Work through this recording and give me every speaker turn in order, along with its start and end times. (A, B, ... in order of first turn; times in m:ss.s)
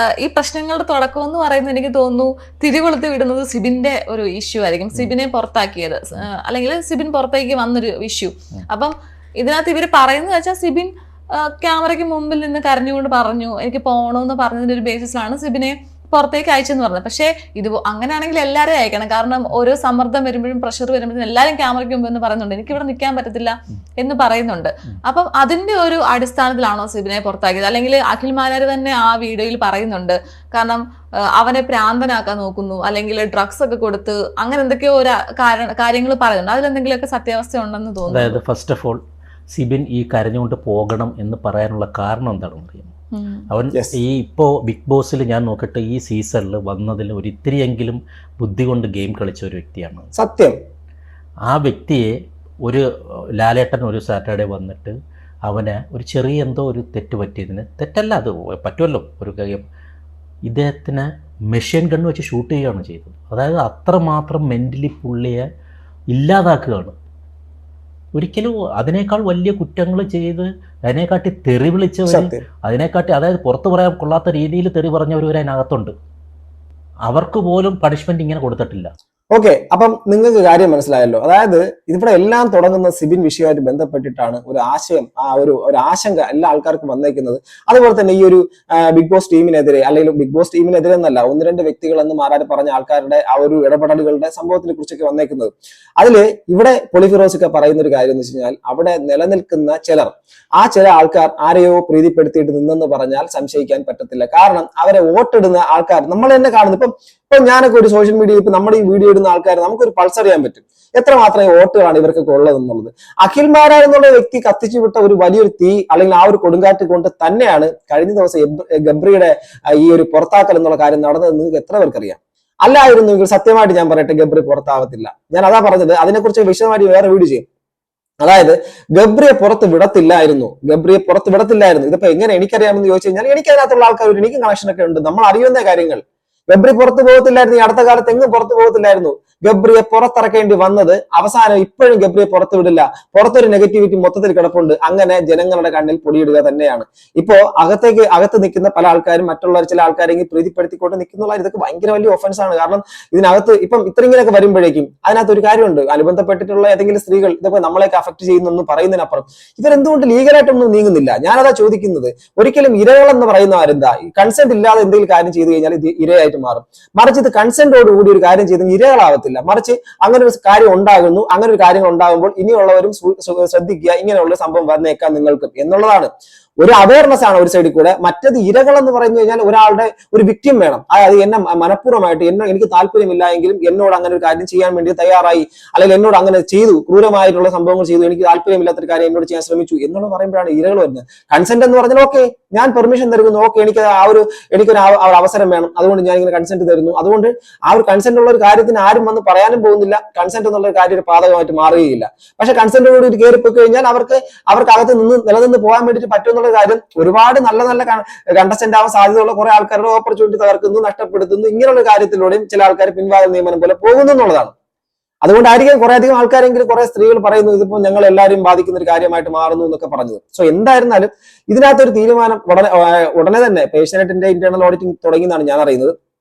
0:00.2-0:30.8 A
0:31.4-0:38.4 A
0:38.1-0:39.0 B
0:39.5-0:42.9 B
0:43.1-0:43.4 A
0:43.5-0:50.1 B
0:50.1-0:50.6 C
0:51.5-0:52.1 B
0:53.4-0:54.9 B
0:55.4-0:59.6 B
1:00.5-1:05.4 B
1:06.1-1:07.0 B
1:08.1-1:15.9 B
1:12.1-1:12.4 C
1:17.0-1:18.9 B
1:19.3-2:07.4 C
2:08.2-3:34.5 C
3:35.2-3:45.9 C